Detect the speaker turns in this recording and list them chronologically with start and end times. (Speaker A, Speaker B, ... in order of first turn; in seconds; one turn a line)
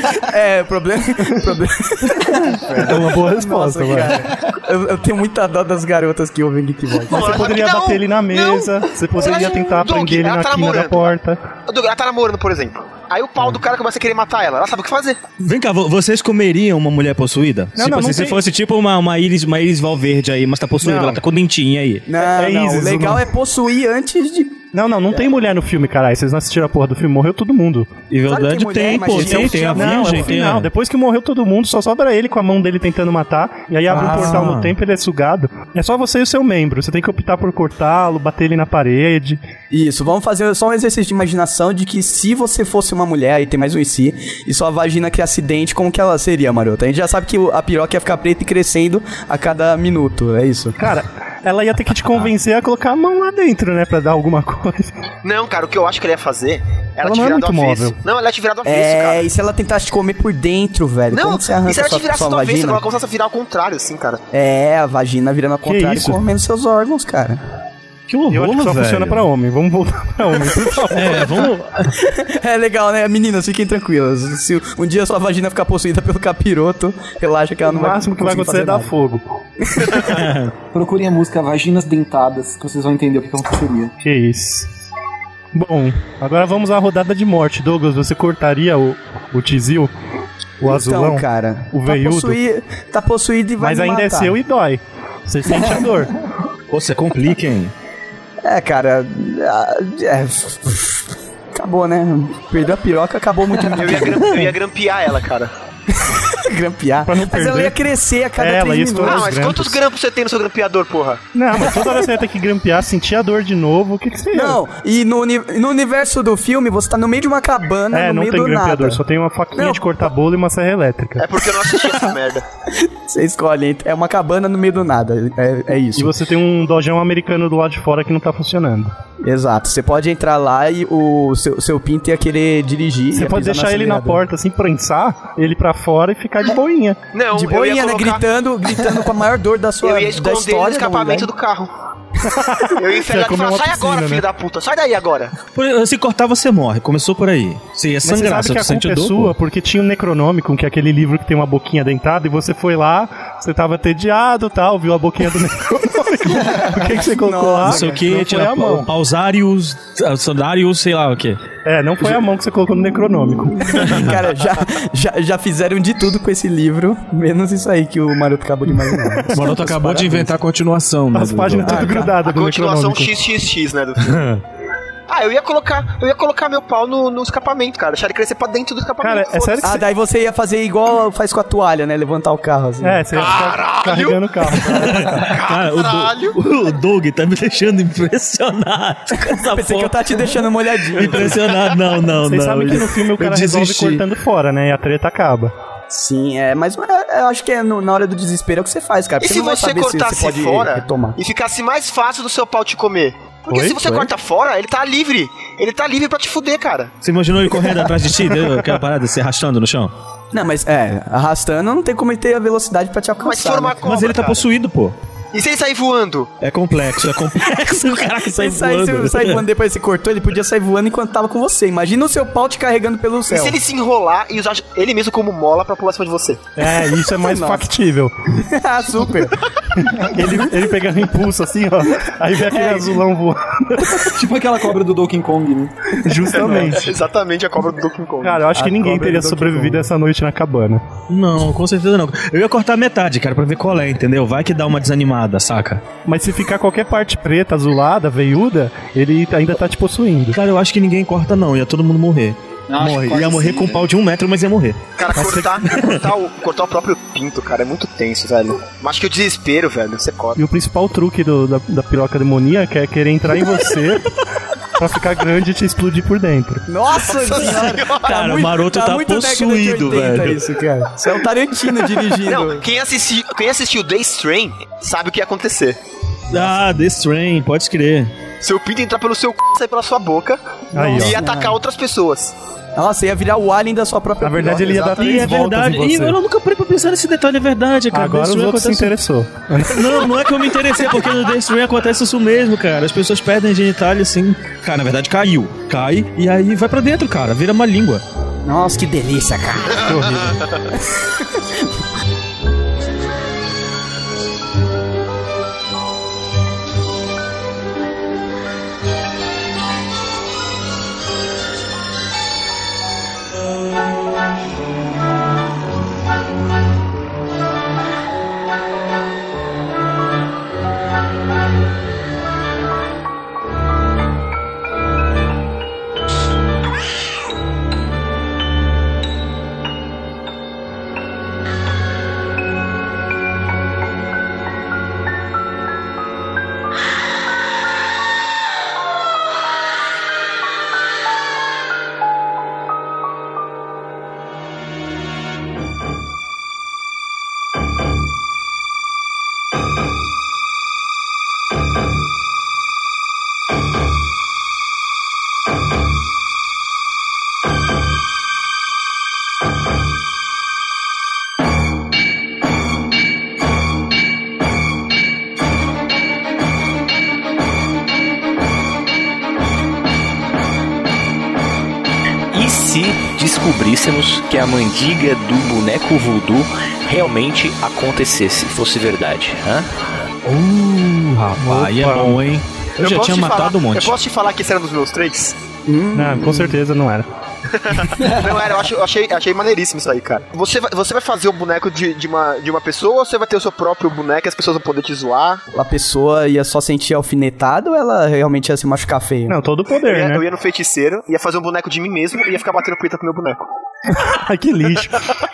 Speaker A: 0.2-7.5
Speaker B: 2.8-4.3
Speaker C: 7.1-11.2
Speaker B: 7.1-11.4
Speaker C: 11.7-15.2
Speaker D: 15.4-22.1
Speaker B: 17.8-18.4
Speaker B: 20.8-21.2
Speaker A: 22.1-25.2
Speaker B: 22.3-23.2
Speaker B: 24.7-27.9
Speaker D: 28.1-30.7
Speaker A: 28.3-30.4
Speaker B: 29.1-39.4
Speaker D: 33.9-34.7
Speaker A: 33.9-34.5
Speaker A: 39.7-50.8
Speaker B: 50.8-54.9
Speaker C: 55.2-59.3
Speaker B: 57.0-58.0
Speaker A: 58.6-62.8
Speaker C: 61.1-64.2
Speaker A: 64.3-67.4
Speaker B: 65.7-66.2
Speaker D: 68.1-69.2
Speaker B: 68.3-71.5
Speaker D: 70.9-71.9
Speaker A: 72.0-78.9
Speaker B: 77.7-79.2
Speaker A: 79.7-80.2
Speaker D: 80.1-80.5
Speaker E: 80.7-83.9
Speaker B: 84.0-84.7
Speaker B: 85.5-89.9
Speaker B: 90.6-92.4
Speaker A: 90.6-94.4
Speaker B: 93.6-96.1
Speaker D: 96.7-97.7
Speaker A: 98.4-104.5
Speaker C: 103.7-105.5
Speaker A: 105.9-109.3
Speaker B: 107.1-107.8
Speaker B: 108.4-109.8
Speaker C: 109.0-111.2
Speaker B: 111.3-114.6
Speaker A: 111.6-111.9
Speaker A: 114.3-119.0
Speaker B: 117.9-121.3
Speaker A: 119.6-119.8
Speaker C: 121.2-122.4
Speaker A: 122.8-126.2
Speaker B: 126.0-128.9
Speaker A: 129.2-134.2
Speaker B: 133.1-137.0
Speaker C: 137.1-138.2
Speaker A: 137.3-141.3
Speaker C: 139.8-141.7
Speaker B: 142.3-144.2
Speaker C: 142.8-145.4
Speaker D: 145.5-149.3
Speaker B: 148.0-158.9
Speaker A: 156.4-158.0
Speaker D: 157.7-161.4
Speaker B: 161.7-163.8
Speaker A: 163.6-170.3
Speaker D: 163.8-164.2
Speaker D: 169.3-172.0
Speaker B: 171.1-173.2
Speaker A: 171.6-172.2
Speaker C: 172.2-174.2
Speaker D: 174.0-174.4
Speaker C: 175.1-179.8
Speaker B: 179.0-179.8
Speaker A: 179.6-183.1
Speaker B: 182.8-185.3
Speaker C: 183.1-186.4
Speaker D: 184.7-190.3
Speaker A: 189.3-191.4
Speaker D: 190.9-194.0
Speaker B: 192.2-195.5
Speaker A: 195.9-201.2
Speaker C: 199.2-207.0
Speaker B: 203.5-204.1
Speaker D: 207.0-209.9
Speaker A: 210.3-213.8
Speaker C: 213.2-214.5
Speaker D: 213.8-215.0
Speaker C: 215.3-216.3
Speaker D: 216.4-219.4
Speaker A: 218.2-223.6
Speaker C: 223.3-226.4
Speaker B: 226.6-228.1
Speaker A: 227.2-227.7
Speaker A: 228.4-229.4
Speaker B: 229.8-234.2
Speaker A: 232.5-233.0
Speaker E: 234.2-235.7
Speaker B: 236.0-237.0
Speaker C: 236.2-238.6
Speaker A: 236.2-236.7
Speaker B: 238.2-240.8
Speaker A: 238.5-239.9
Speaker D: 241.1-245.8
Speaker B: 246.1-250.4
Speaker D: 250.3-254.8
Speaker E: 252.7-253.9
Speaker C: 255.0-260.4
Speaker B: 255.2-255.5
Speaker B: 260.4-264.1
Speaker B: 264.8-266.6
Speaker A: 266.7-272.6
Speaker C: 267.1-268.3
Speaker D: 268.1-270.4
Speaker C: 272.2-275.8
Speaker D: 276.3-278.1
Speaker C: 278.4-282.3
Speaker B: 280.7-281.2
Speaker A: 280.8-281.6
Speaker A: 282.8-285.1
Speaker B: 284.2-286.2
Speaker C: 284.6-285.2
Speaker D: 284.9-288.9
Speaker B: 287.9-290.1
Speaker D: 289.7-298.0
Speaker A: 298.4-300.1
Speaker C: 299.8-300.6
Speaker B: 299.9-300.4
Speaker A: 300.9-301.7
Speaker F: 372.3-379.7
Speaker D: 380.2-383.9
Speaker B: 381.4-382.2
Speaker C: 382.8-385.4
Speaker A: 385.7-386.6
Speaker B: 385.9-387.1
Speaker C: 387.5-395.4
Speaker A: 395.5-399.4
Speaker B: 399.3-400.2
Speaker C: 399.8-403.5
Speaker B: 403.9-405.1